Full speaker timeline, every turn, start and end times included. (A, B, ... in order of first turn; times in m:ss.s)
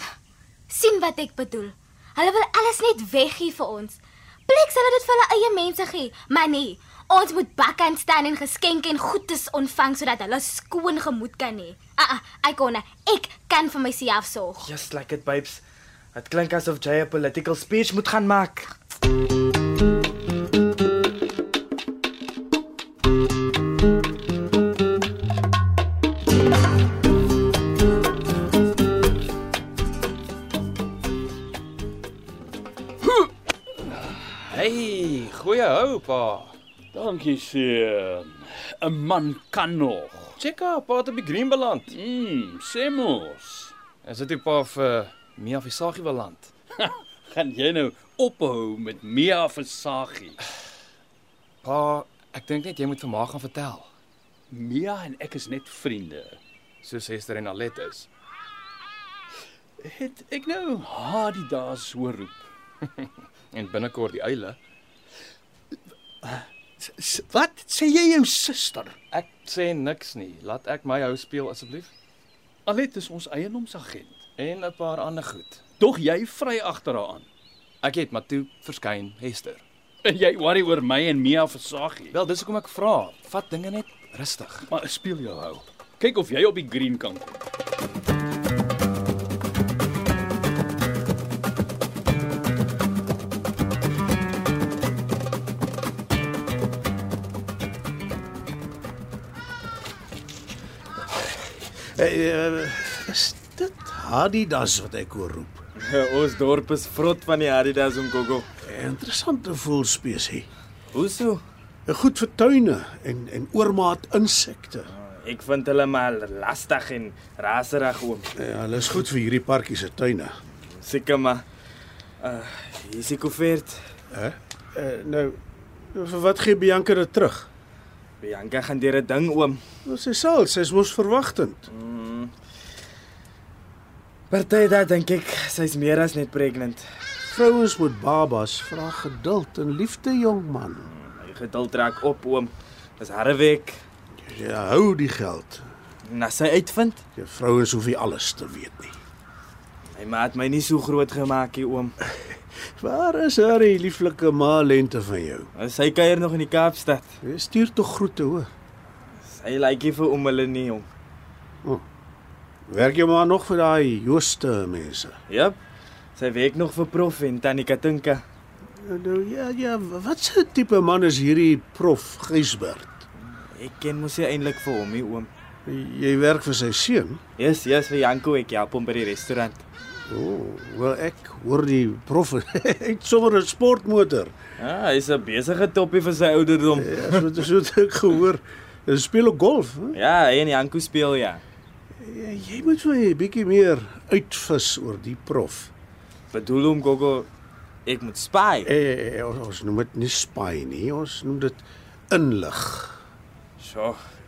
0:00.7-0:14.7 A
0:14.6-0:15.6 B
0:16.2-0:18.7 B
0:34.5-0:36.6 C
0:36.9-0:40.4 D
0:40.4-0:41.9 C
0:41.9-0:43.7 D
0:44.0-0:46.5 C
0:46.8-0:50.4 D
0:51.6-0:53.9 C
0:54.5-0:56.4 D
0:56.8-0:58.1 C
0:59.8-1:02.4 D
1:03.5-1:04.6 C
1:06.2-1:09.0 D
1:09.1-1:11.9 C
1:12.7-1:14.2 D
1:14.4-1:15.6 C
1:15.8-1:17.3 D
1:17.8-1:19.6 C
1:20.0-1:22.2 D
1:22.1-1:24.7 C
1:24.7-1:27.4 D
1:42.0-1:45.6 E
1:45.8-1:48.5 B
1:48.6-1:50.5 E
1:50.9-1:51.4 B
1:51.9-1:54.9 E
1:54.9-1:58.3 B
1:58.4-2:00.3 E
2:00.8-2:01.4 B
2:02.2-2:03.8 B
2:04.1-2:05.4 E
2:05.9-2:07.5 E
2:08.2-2:09.6 B
2:09.9-2:11.7 E
2:11.7-2:12.3 B
2:14.3-2:16.8 B
2:17.3-2:20.9 E
2:20.9-2:23.8 B
2:24.2-2:25.6 E
2:26.1-2:27.0 B
2:27.2-2:29.0 E
2:30.0-2:31.9 B
2:32.8-2:35.5 E
2:35.6-2:37.1 B
2:37.2-2:38.5 E
2:39.2-2:40.9 B
2:42.7-2:45.2 E
2:45.3-2:45.6 B
2:46.2-2:48.2 B
2:48.8-2:53.0 E
2:53.6-2:55.3 B
2:55.7-2:57.2 E
2:57.4-2:59.6 B
3:00.1-3:04.3 E
3:04.6-3:07.4 B
3:06.7-3:10.0 E
3:09.9-3:11.4 B
3:12.0-3:15.7 E
3:16.3-3:17.3 B
3:17.9-3:18.7 B
3:18.6-3:23.0 E
3:23.6-3:24.0 B